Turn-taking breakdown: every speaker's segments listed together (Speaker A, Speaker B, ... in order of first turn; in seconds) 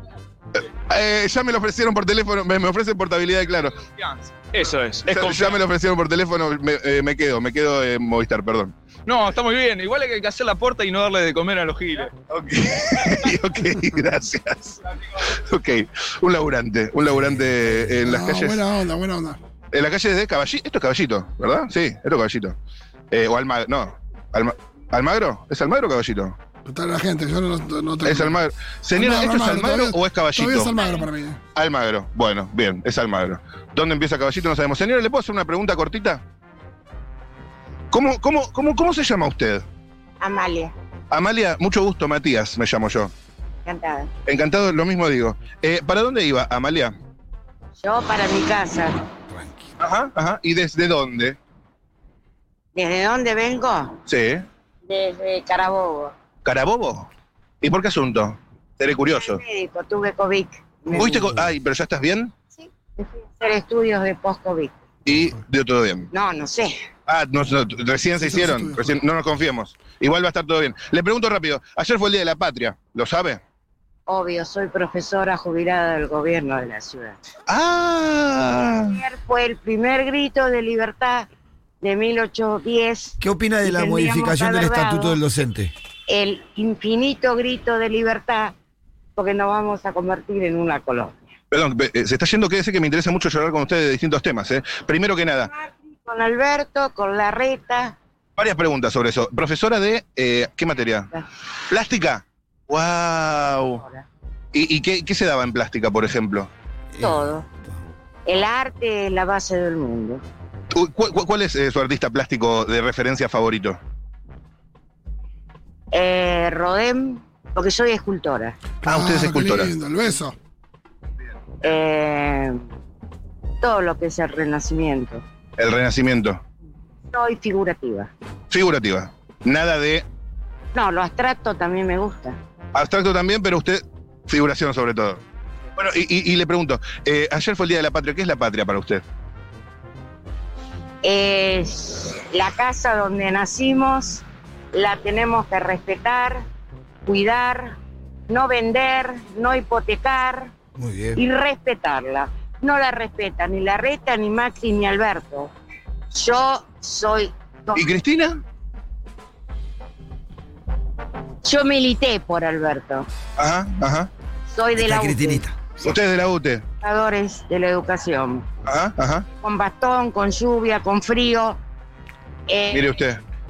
Speaker A: 0.9-3.8, 5.1-8.7, 12.3-18.6, 19.7-22.6, 23.1-26.4, 28.0-30.7, 31.6-36.2, 37.9-39.6, 41.1-43.1, 44.3-47.0, 49.8-51.4, 54.1-54.5, 56.5-57.1, 57.6-59.4, 60.9-62.3, 65.0-66.1, 67.1-73.4, 77.5-79.0, 91.5-95.5, 98.4-101.1, 101.7-103.8, 104.5-106.5, 110.7-113.8, 118.9-119.7, 125.6-126.4, 128.5-130.1, 132.7-135.2, 135.8-139.0, 157.8-158.4, 163.4-164.1, 165.8-166.6, 168.7-169.3, 172.7-173.2
Speaker B: 4.0-5.6, 9.1-12.1
Speaker C: 17.2-17.8, 49.3-49.7, 83.2-85.7, 106.9-107.8, 150.8-151.2, 164.8-165.6
Speaker D: 18.1-19.4, 26.6-28.4, 28.9-31.4, 68.2-69.0, 118.8-120.3
Speaker E: 40.2-40.7, 43.6-44.1, 47.8-49.0, 52.8-54.0, 54.9-56.1, 59.1-61.4, 62.6-64.7, 66.1-66.8, 74.1-77.2, 78.8-81.3, 81.8-85.2, 86.1-88.5, 89.2-91.2, 95.5-98.0, 107.0-107.5, 108.3-110.2, 115.9-118.6, 121.6-122.6, 123.6-125.2, 127.1-128.1, 130.7-132.4, 141.0-146.4, 147.1-147.8, 148.3-150.5, 151.2-155.5, 156.1-157.9, 161.4-163.1, 164.5-165.4, 166.8-168.5, 169.4-171.6, 172.5-173.0